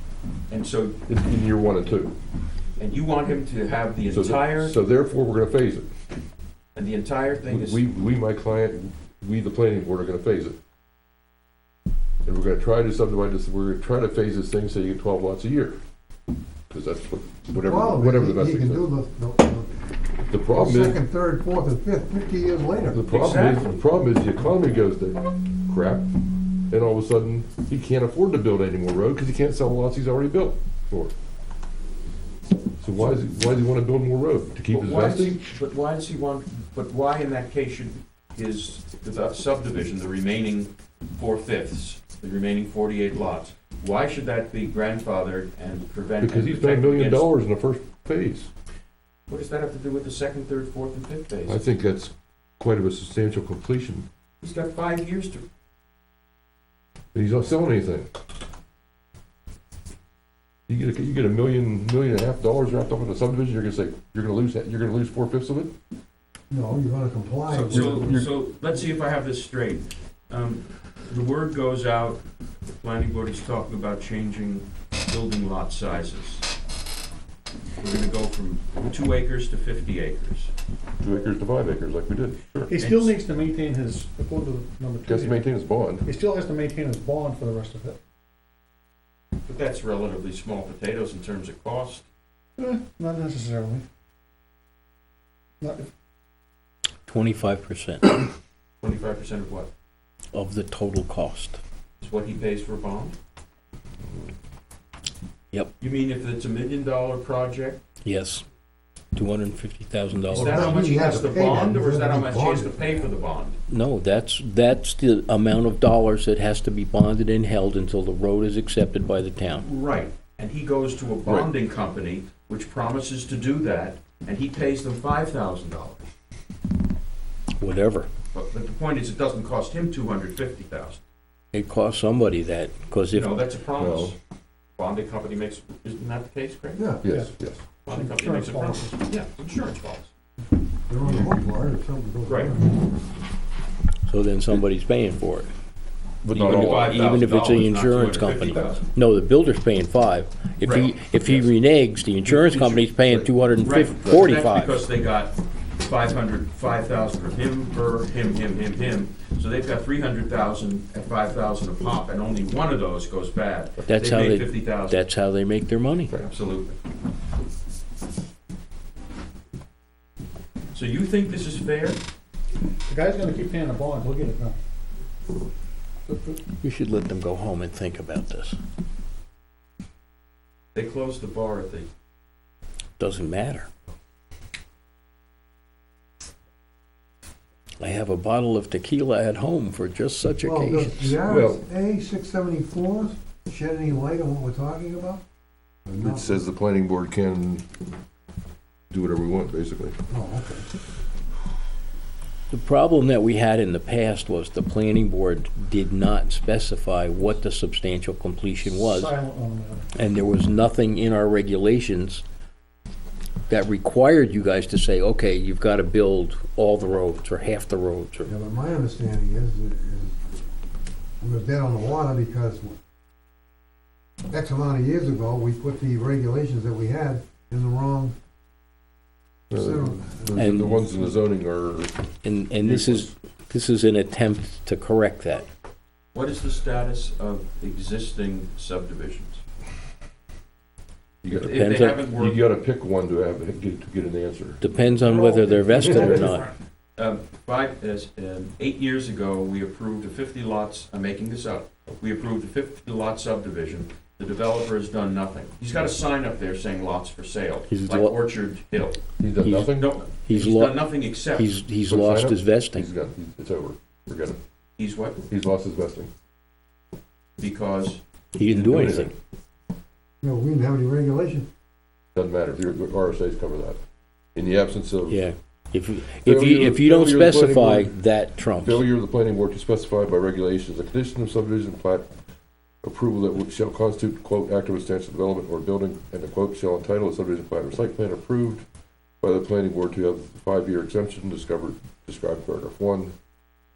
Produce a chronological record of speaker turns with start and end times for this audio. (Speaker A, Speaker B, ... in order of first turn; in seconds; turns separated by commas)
Speaker A: 0.5-1.0, Speaker B: 1.1-2.1, Speaker A: 2.8-4.8, Speaker B: 4.1-5.9, Speaker A: 6.8-7.8, Speaker B: 7.5-10.6, Speaker B: 12.2-15.8, Speaker B: 16.7-18.8, Speaker C: 17.6-19.8, Speaker B: 20.3-21.0, Speaker C: 20.5-23.0, Speaker B: 22.9-26.1, Speaker A: 23.1-23.7, Speaker B: 26.7-31.1, Speaker B: 32.8-35.4, Speaker A: 34.7-47.3, Speaker B: 46.2-48.5, Speaker A: 49.3-51.6, Speaker B: 51.5-54.1, Speaker A: 54.4-55.5, Speaker B: 57.1-58.1, Speaker B: 60.7-65.7, Speaker C: 66.5-68.3, Speaker A: 67.5-72.2, Speaker B: 67.7-68.3, Speaker A: 72.8-76.5, Speaker A: 77.8-80.5, Speaker B: 81.0-82.7, Speaker D: 82.7-85.4, Speaker A: 82.8-83.1, Speaker B: 85.0-86.0, Speaker D: 86.0-88.0, Speaker A: 89.5-92.0, Speaker D: 92.6-93.8, Speaker D: 95.6-95.9, Speaker E: 97.1-98.2, Speaker A: 98.8-99.7, Speaker E: 100.3-101.6, Speaker A: 102.0-103.2, Speaker A: 105.8-107.8, Speaker E: 108.0-108.5, Speaker E: 109.1-110.9, Speaker A: 110.3-113.6, Speaker C: 110.3-113.1, Speaker E: 113.7-119.6, Speaker A: 119.6-126.0, Speaker B: 121.2-121.5, Speaker E: 127.6-128.1, Speaker A: 128.3-131.0, Speaker E: 131.5-133.4, Speaker A: 133.1-134.2, Speaker B: 133.8-134.1, Speaker A: 134.8-136.8, Speaker C: 136.8-137.1, Speaker B: 137.0-137.6, Speaker D: 137.1-137.3, Speaker A: 137.8-140.1, Speaker D: 137.9-139.0, Speaker C: 140.9-142.9, Speaker A: 142.3-142.6, Speaker E: 144.1-145.5, Speaker B: 146.2-147.2, Speaker A: 146.3-148.8, Speaker E: 146.4-154.8, Speaker A: 150.6-151.5, Speaker A: 152.3-152.8, Speaker A: 153.6-165.0, Speaker E: 163.9-166.1, Speaker A: 166.2-166.8, Speaker A: 170.7-172.0, Speaker D: 172.9-174.6, Speaker D: 176.1-176.4, Speaker E: 176.5-178.6, Speaker A: 180.7-181.9, Speaker E: 183.0-183.7, Speaker E: 187.8-191.2, Speaker C: 190.4-195.2, Speaker B: 191.3-191.6, Speaker C: 195.8-196.4, Speaker B: 196.0-197.6, Speaker B: 198.9-200.0, Speaker C: 200.1-200.7, Speaker E: 202.5-209.1, Speaker D: 208.7-209.9, Speaker E: 209.9-212.2, Speaker E: 213.5-218.3, Speaker C: 218.3-220.2, Speaker C: 221.2-222.8, Speaker C: 224.3-228.1, Speaker C: 229.5-231.0, Speaker B: 229.5-232.0, Speaker E: 230.4-230.8, Speaker E: 232.2-235.5, Speaker B: 232.6-233.1, Speaker A: 236.1-239.4, Speaker B: 241.2-244.6, Speaker A: 241.3-242.4, Speaker E: 241.5-242.1, Speaker E: 244.6-246.5, Speaker C: 245.2-246.2, Speaker B: 245.7-246.2, Speaker A: 247.0-259.0, Speaker E: 257.7-258.2, Speaker B: 259.2-260.0, Speaker E: 259.4-259.7, Speaker A: 259.7-261.5, Speaker E: 260.2-262.9, Speaker B: 261.8-264.4, Speaker A: 264.8-265.2, Speaker B: 265.3-266.1, Speaker A: 267.4-268.0, Speaker E: 268.4-269.1, Speaker B: 268.4-269.1, Speaker C: 270.2-271.5, Speaker B: 272.1-273.8, Speaker B: 274.4-275.3, Speaker E: 275.1-278.9, Speaker B: 276.2-277.9, Speaker B: 278.6-282.1, Speaker B: 282.8-288.6, Speaker B: 289.2-293.1